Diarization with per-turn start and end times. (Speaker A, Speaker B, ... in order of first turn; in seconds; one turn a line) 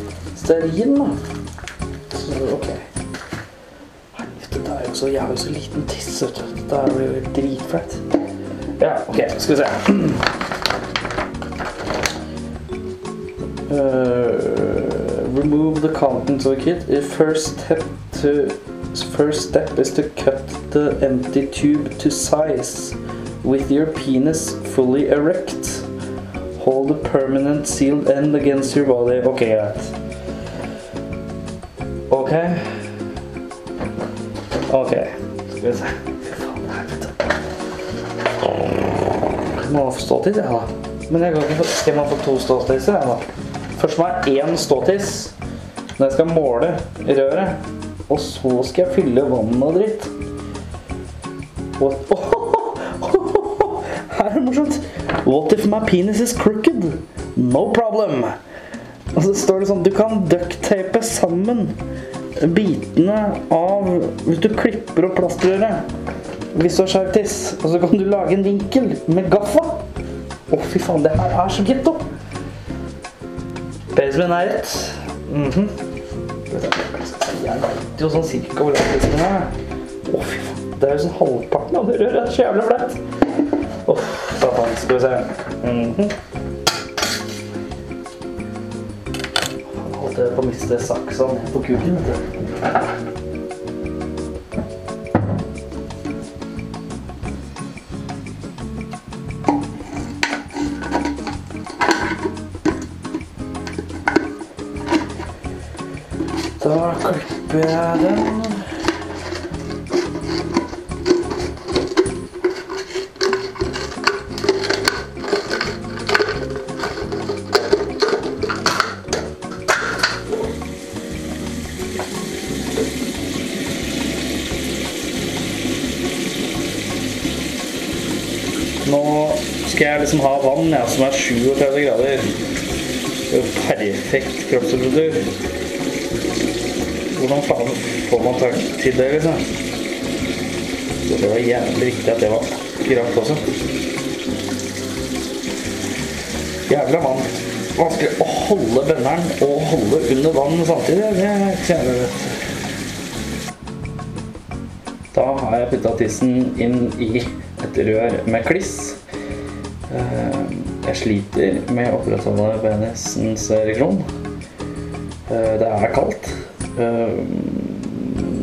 Speaker A: 0.3-1.1
Speaker A: 2.1-2.8
Speaker A: 4.2-8.0
Speaker A: 8.8-10.2
Speaker A: 13.7-25.8
Speaker A: 26.6-29.9
Speaker A: 32.1-32.6
Speaker A: 34.7-37.1
Speaker A: 39.6-43.2
Speaker A: 43.8-45.3
Speaker A: 46.0-47.6
Speaker A: 48.1-50.1
Speaker A: 51.8-58.3
Speaker A: 59.2-61.7
Speaker A: 62.4-65.8
Speaker A: 66.5-69.8
Speaker A: 70.5-72.0
Speaker A: 73.9-75.7
Speaker A: 76.5-79.5
Speaker A: 80.1-83.0
Speaker A: 83.9-86.1
Speaker A: 89.8-92.2
Speaker A: 106.6-108.5
Speaker A: 128.8-132.3
Speaker A: 133.3-135.2
Speaker A: 137.1-139.4
Speaker A: 141.1-143.4
Speaker A: 146.7-152.3
Speaker A: 155.1-158.9
Speaker A: 159.9-164.0
Speaker A: 165.3-167.7